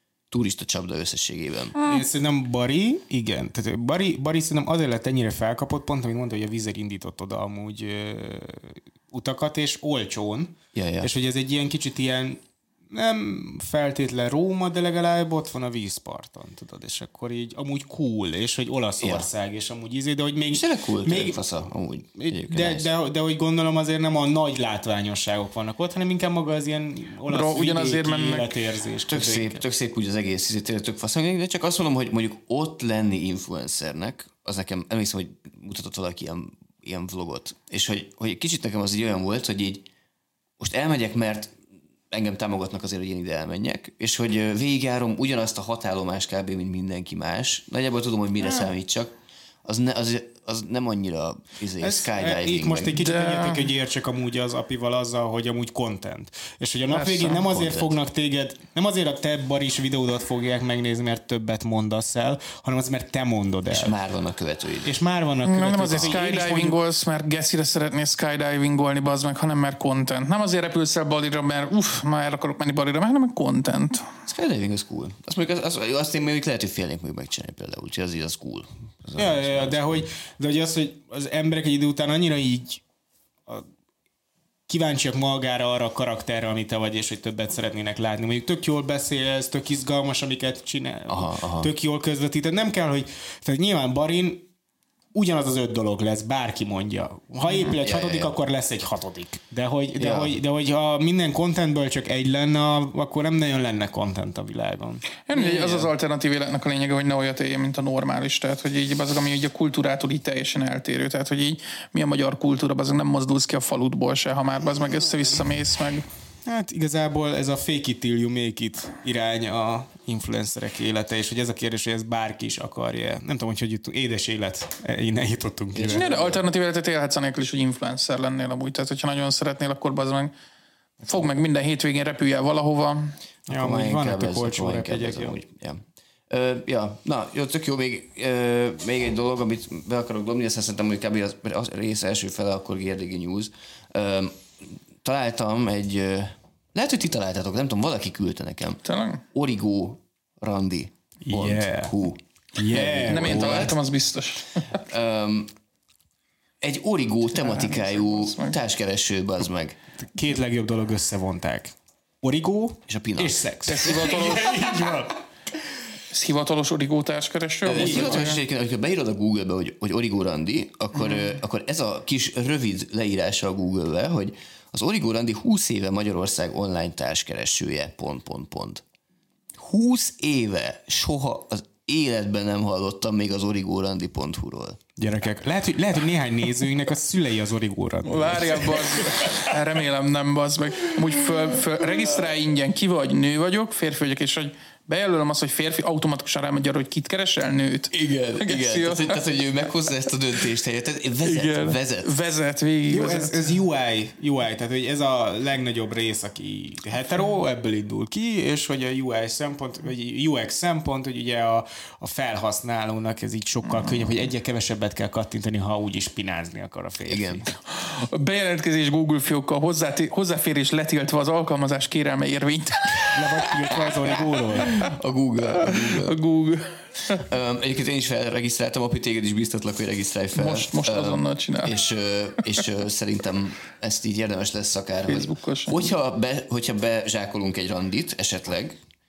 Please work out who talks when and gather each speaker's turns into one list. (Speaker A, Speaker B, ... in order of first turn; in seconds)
Speaker A: 0.3-1.8, 10.7-11.1, 19.0-19.3, 20.5-22.9, 29.1-39.9, 40.6-41.5, 42.1-53.0, 57.3-57.9, 63.7-65.0, 74.2-79.9, 91.1-91.7, 97.8-98.3, 100.0-100.3, 125.7-126.4, 133.5-148.8, 149.3-153.8, 154.7-155.5, 156.6-159.8, 162.9-163.4, 167.6-178.8, 179.5-184.8, 197.9-202.1, 217.0-217.5, 224.6-226.2, 227.1-238.8
Speaker B: 1.8-21.4, 22.1-29.6, 51.8-64.0, 64.8-66.8, 79.2-82.8, 84.7-94.5, 95.1-105.9, 116.5-126.1, 133.5-135.3, 151.2-152.0, 152.6-153.8, 160.0-165.2, 167.7-168.4, 185.0-189.5, 202.9-217.5, 223.1-224.7
Speaker C: 27.3-28.5, 52.9-53.7, 56.9-57.4, 65.4-74.1, 105.2-116.0, 125.9-130.3, 131.1-133.1, 148.8-149.2, 153.1-154.6, 157.3-158.6, 163.7-164.8, 166.1-168.4, 170.9-171.4, 188.0-199.2, 201.2-203.4, 217.7-224.9, 225.6-227.2, 230.3-231.8, 235.1-235.9